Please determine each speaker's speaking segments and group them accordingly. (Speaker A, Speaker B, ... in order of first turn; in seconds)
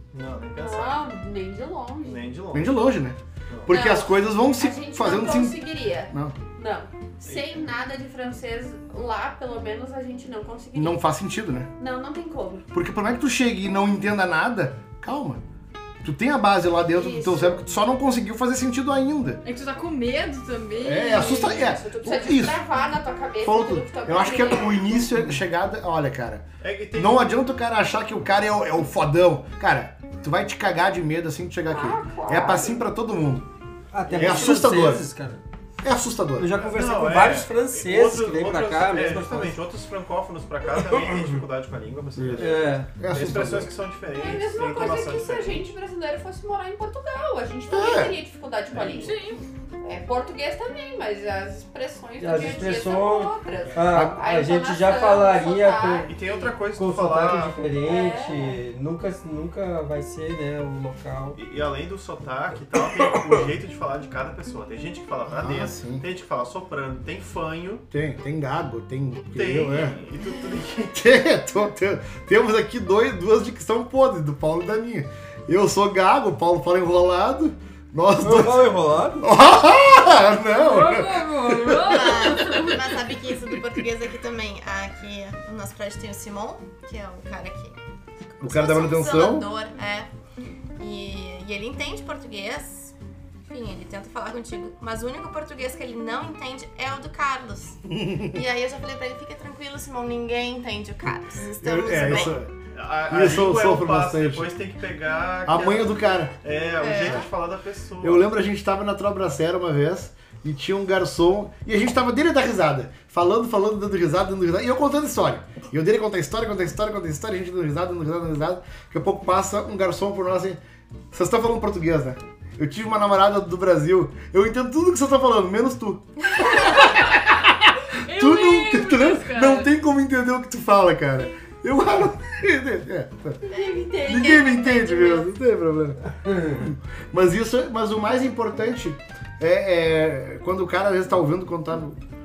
Speaker A: 0.1-1.0, 2.1-2.9, 7.2-7.6, 26.6-27.4, 34.1-34.7, 36.5-45.7, 48.7-49.1, 56.1-57.6, 61.4-67.8, 69.3-71.0, 101.9-108.3
Speaker B: 0.6-2.3, 3.7-11.0, 11.8-12.7, 16.9-17.7, 21.2-25.1, 31.7-32.9, 44.1-49.2, 49.8-56.5, 57.8-58.6, 133.4-135.3
Speaker C: 2.5-5.6, 6.1-6.4, 10.7-11.7, 12.7-15.4, 16.0-19.4, 20.8-22.6, 23.4-33.5, 34.2-35.1, 35.8-36.6, 43.0-43.7, 47.7-48.2, 53.9-54.2, 65.3-66.0, 67.9-70.0, 70.9-82.8, 88.4-89.5, 97.9-98.4, 101.6-102.5, 103.1-104.5, 105.5-106.4, 108.0-120.6, 121.1-133.4, 134.0-142.0
Speaker D: 19.4-21.8, 49.0-49.4, 80.5-82.9, 126.8-127.3, 128.0-129.7
Speaker E: 33.9-35.4, 36.4-39.6, 40.8-41.2, 42.2-43.0, 52.2-56.2, 56.7-61.4, 78.2-79.3
Speaker F: 81.7-87.8, 88.4-90.1, 90.8-92.9, 93.5-102.4, 106.8-107.3